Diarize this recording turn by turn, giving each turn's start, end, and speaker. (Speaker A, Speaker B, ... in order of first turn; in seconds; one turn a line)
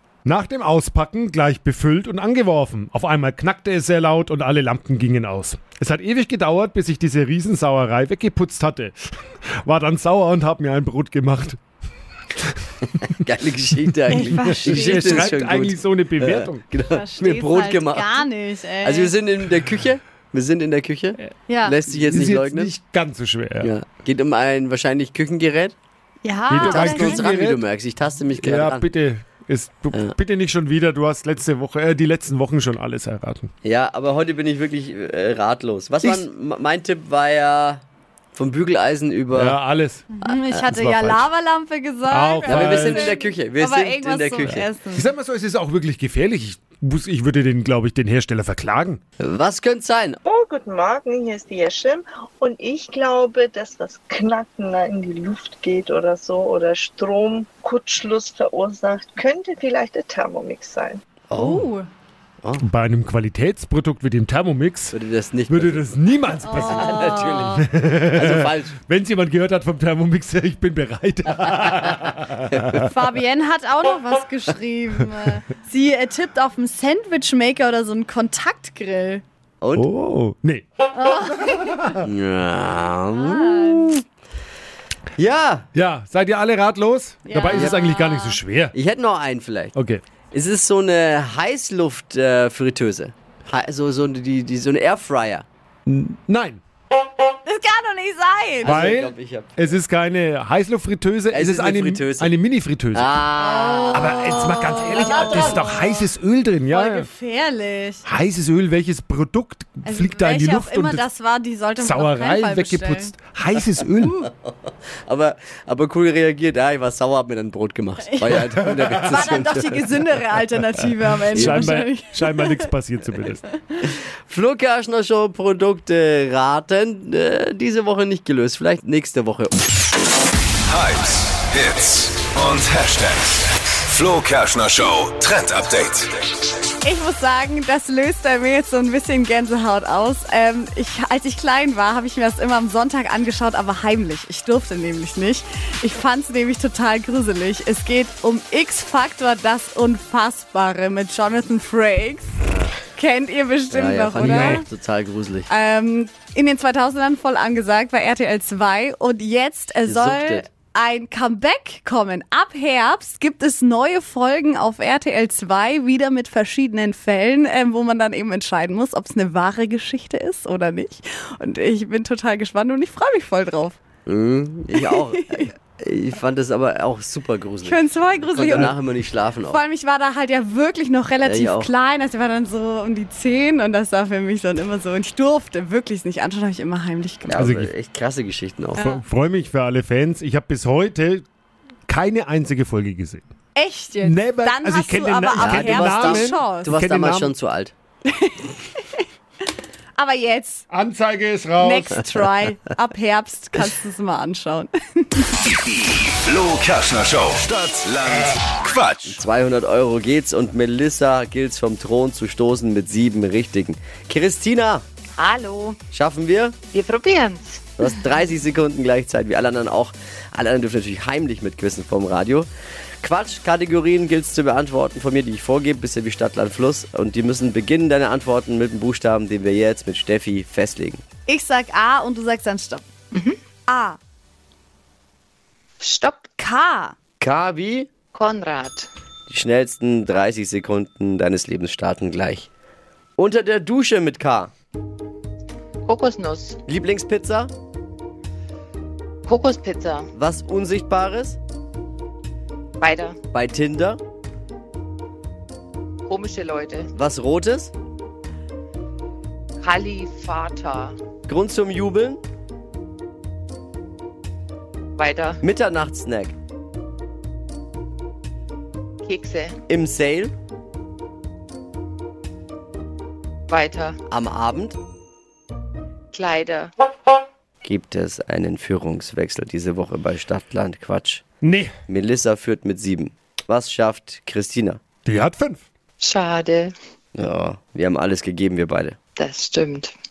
Speaker A: 0.2-8.9
Speaker A: 9.6-11.6
Speaker B: 13.0-18.2
Speaker C: 14.1-15.3
Speaker A: 14.4-16.6
Speaker C: 16.9-19.1
Speaker B: 18.8-22.8
Speaker C: 21.5-21.8
Speaker A: 22.0-23.7
Speaker B: 23.6-25.7
Speaker C: 26.2-27.3
Speaker A: 26.5-27.6
Speaker B: 26.6-28.9
Speaker A: 28.4-33.5
Speaker B: 33.6-37.8
Speaker B: 38.3-39.6
Speaker A: 39.4-40.0
Speaker C: 40.1-45.1
Speaker B: 40.2-40.6
Speaker A: 40.7-41.2
Speaker A: 42.1-43.0
Speaker B: 42.5-44.7
Speaker A: 44.9-49.0
Speaker B: 49.2-50.2
Speaker D: 50.2-61.0
Speaker B: 61.3-61.6
Speaker C: 61.3-61.9
Speaker A: 62.6-64.9
Speaker B: 64.9-68.8
Speaker A: 65.5-67.0
Speaker C: 66.5-67.6
Speaker A: 67.6-72.9
Speaker B: 72.5-72.9
Speaker C: 72.9-79.2
Speaker B: 79.6-79.9
Speaker A: 79.7-80.7
Speaker C: 80.9-81.9
Speaker B: 82.0-84.0
Speaker C: 83.1-83.9
Speaker B: 85.2-85.7
Speaker A: 85.8-88.7
Speaker C: 87.3-88.4
Speaker B: 87.5-87.8
Speaker B: 88.7-89.7
Speaker A: 89.8-90.0
Speaker B: 90.3-95.4
Speaker A: 95.9-96.6
Speaker C: 97.4-98.8
Speaker B: 98.6-99.8
Speaker A: 98.7-103.1
Speaker B: 101.3-102.3
Speaker B: 102.9-104.2
Speaker C: 103.4-106.0
Speaker A: 103.9-107.0
Speaker B: 104.9-105.7
Speaker C: 106.7-108.0
Speaker A: 108.0-111.0
Speaker C: 109.8-113.1
Speaker A: 111.8-114.2
Speaker C: 114.0-114.3
Speaker B: 114.2-119.8
Speaker C: 118.0-118.5
Speaker C: 119.0-122.7
Speaker B: 121.3-121.6
Speaker A: 121.4-123.4
Speaker B: 123.8-129.6
Speaker E: 130.7-136.1
Speaker C: 136.8-152.4
Speaker C: 152.9-154.7
Speaker B: 153.7-155.5
Speaker A: 154.2-154.6
Speaker C: 155.5-173.8
Speaker B: 159.8-160.5
Speaker B: 174.1-179.6
Speaker C: 174.8-175.5
Speaker C: 177.6-178.8
Speaker C: 179.5-187.4
Speaker B: 181.2-181.7
Speaker B: 187.3-188.9
Speaker A: 187.4-187.7
Speaker C: 188.8-189.0
Speaker A: 188.8-191.2
Speaker A: 191.9-193.2
Speaker C: 193.5-196.7
Speaker A: 194.0-197.3
Speaker B: 195.4-197.7
Speaker C: 198.1-199.0
Speaker C: 200.0-200.6
Speaker A: 200.7-201.9
Speaker C: 201.6-205.4
Speaker E: 205.8-209.2
Speaker B: 209.1-214.8
Speaker F: 215.2-215.8
Speaker B: 215.9-216.6
Speaker F: 216.7-217.7
Speaker B: 217.8-222.5
Speaker B: 223.0-231.0
Speaker C: 231.3-232.8
Speaker C: 233.7-234.0
Speaker F: 235.8-236.3
Speaker C: 236.4-236.9
Speaker B: 237.2-237.9
Speaker F: 238.1-238.9
Speaker B: 239.3-242.5
Speaker B: 243.2-244.5
Speaker F: 245.8-246.6
Speaker B: 246.7-247.5
Speaker F: 249.2-250.1
Speaker B: 250.2-251.4
Speaker F: 252.8-253.2
Speaker B: 253.3-254.0
Speaker F: 256.1-256.9
Speaker B: 256.9-257.7
Speaker F: 259.6-260.9
Speaker B: 261.3-262.2
Speaker F: 265.0-265.4
Speaker B: 265.4-266.3
Speaker F: 269.0-269.6
Speaker B: 269.7-270.3
Speaker F: 273.5-274.0
Speaker B: 274.1-274.8
Speaker F: 276.1-276.7
Speaker B: 277.6-281.2
Speaker A: 281.4-281.7
Speaker B: 281.9-284.8
Speaker A: 285.1-285.6
Speaker F: 286.0-286.7
Speaker B: 287.1-289.0
Speaker F: 289.2-289.9